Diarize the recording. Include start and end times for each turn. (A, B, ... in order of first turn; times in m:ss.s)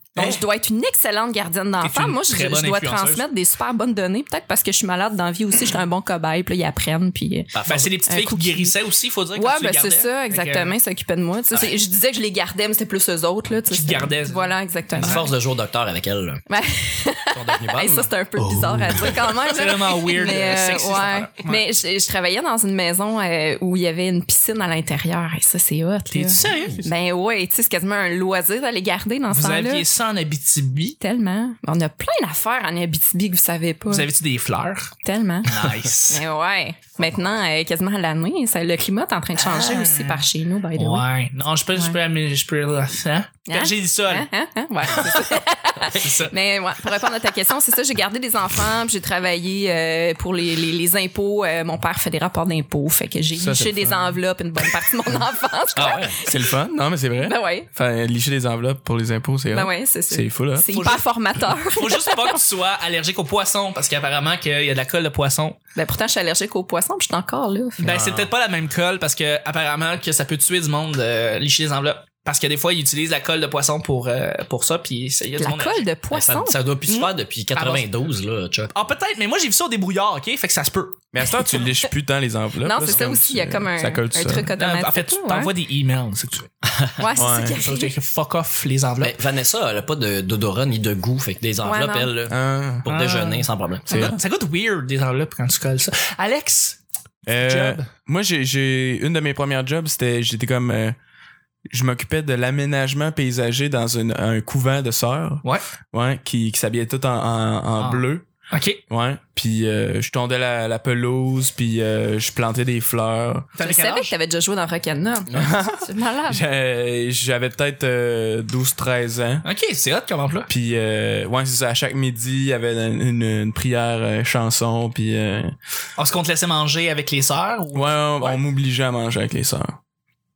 0:00.2-0:08.7 A
0:01.8-0:03.2 B
0:07.5-0:07.9 C
0:07.7-0:10.8 B
0:09.4-0:15.3 A
0:13.7-0:15.2 B
0:15.0-0:16.4 C
0:16.5-0:29.9 A
0:17.3-0:18.1 C
0:18.9-0:21.6 B
0:26.1-0:26.8 B
0:26.3-0:26.9 C
0:29.3-0:31.0 B
0:31.0-0:34.1 A
0:33.9-0:34.9 B
0:35.0-0:41.1 A
0:35.5-0:36.2 B
0:39.4-0:40.2 B
0:40.8-0:44.3 B
0:43.5-0:56.6 A
0:46.0-0:46.3 B
0:53.4-0:54.2 D
0:55.8-0:56.2 C
0:56.2-1:00.7 D
0:57.2-0:57.7 A
0:59.5-1:02.3 A
1:00.7-1:01.1 B
1:01.6-1:05.6 B
1:05.8-1:08.0 A
1:07.8-1:15.9 B
1:07.8-1:08.3 C
1:15.4-1:16.6 A
1:16.1-1:18.8 C
1:16.9-1:17.9 B
1:18.7-1:21.0 B
1:21.1-1:24.5 D
1:21.3-1:21.8 A
1:22.6-1:25.5 A
1:24.6-1:26.5 B
1:26.6-1:27.0 C
1:27.0-1:28.0 A
1:27.2-1:27.6 D
1:27.5-1:29.2 B
1:29.0-1:34.1 C
1:31.6-1:32.1 A
1:32.3-1:32.8 D
1:32.9-1:37.9 B
1:37.3-1:41.0 D
1:41.7-1:48.2 D
1:47.8-1:48.8 B
1:48.9-1:53.5 D
1:53.6-1:54.1 B
1:53.6-1:56.4 A
1:55.4-1:59.4 D
1:59.4-2:00.5 B
2:00.5-2:05.6 D
2:06.0-2:08.4 B
2:07.7-2:09.8 D